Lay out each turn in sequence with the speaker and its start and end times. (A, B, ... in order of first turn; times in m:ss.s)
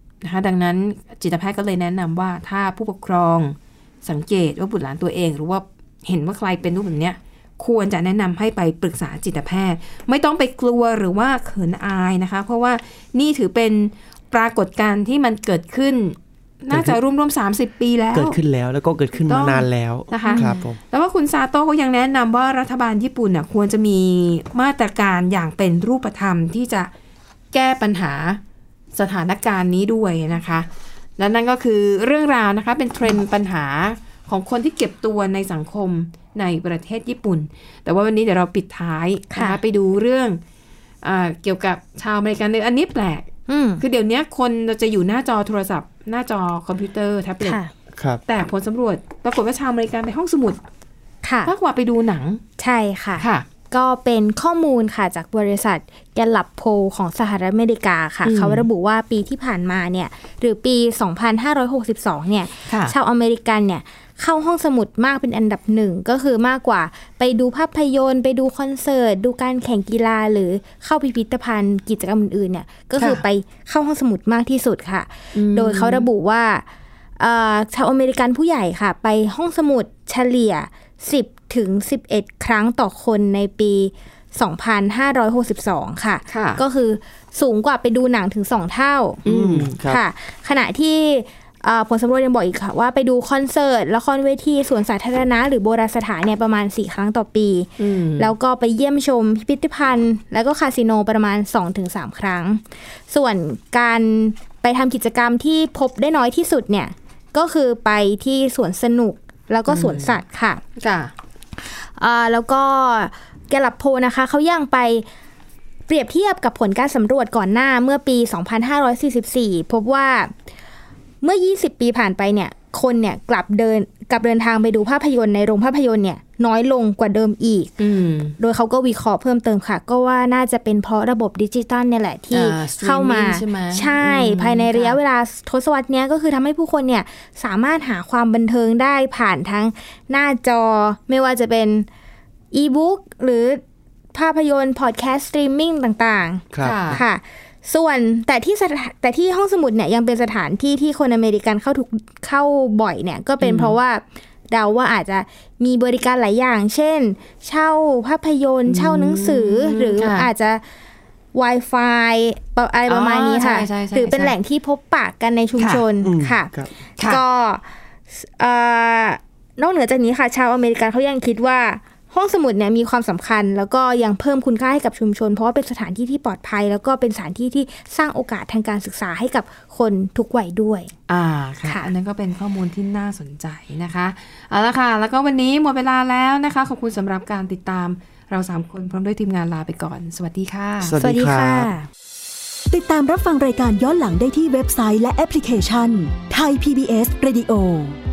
0:00.2-0:18.4 A
0:16.7-0:17.0 B
0:18.1-0:20.8 B
0:19.2-0:26.9 A
0:20.2-0:20.7 C
0:27.5-0:28.4 A
0:29.0-0:40.4 A
0:39.3-0:39.6 C
0:41.0-0:43.3 A
0:43.5-0:43.8 C
0:43.8-0:47.6 A
0:47.4-0:47.7 C
0:48.0-0:48.2 B
0:48.3-0:50.6 A
0:51.2-0:51.5 C
0:51.5-0:52.4 A
0:52.6-1:16.7 C
0:53.2-0:53.5 A
0:58.2-0:58.6 A
1:02.7-1:02.9 A
1:15.3-1:16.1 A
1:17.2-1:29.2 C
1:26.3-1:26.6 A
1:29.2-1:29.8 A
1:29.3-1:30.0 B
1:29.9-1:50.6 C
1:37.8-1:38.3 A
1:49.7-1:50.2 A
1:50.8-1:51.1 A
1:51.6-1:55.1 C
1:55.9-2:00.3 C
2:01.2-2:07.7 C
2:07.8-2:08.4 A
2:08.4-2:21.9 C
2:12.3-2:15.0 A
2:22.5-2:23.6 C
2:24.1-2:40.6 C
2:26.5-2:27.0 B
2:26.6-2:27.0 A
2:33.4-2:33.8 A
2:38.7-2:40.3 A
2:41.3-3:00.9 C
2:42.9-2:44.3 A
2:45.6-2:45.8 A
2:46.0-2:46.7 B
3:01.1-3:11.0 A
3:10.8-3:11.7 B
3:11.0-3:11.9 C
3:12.7-3:18.0 D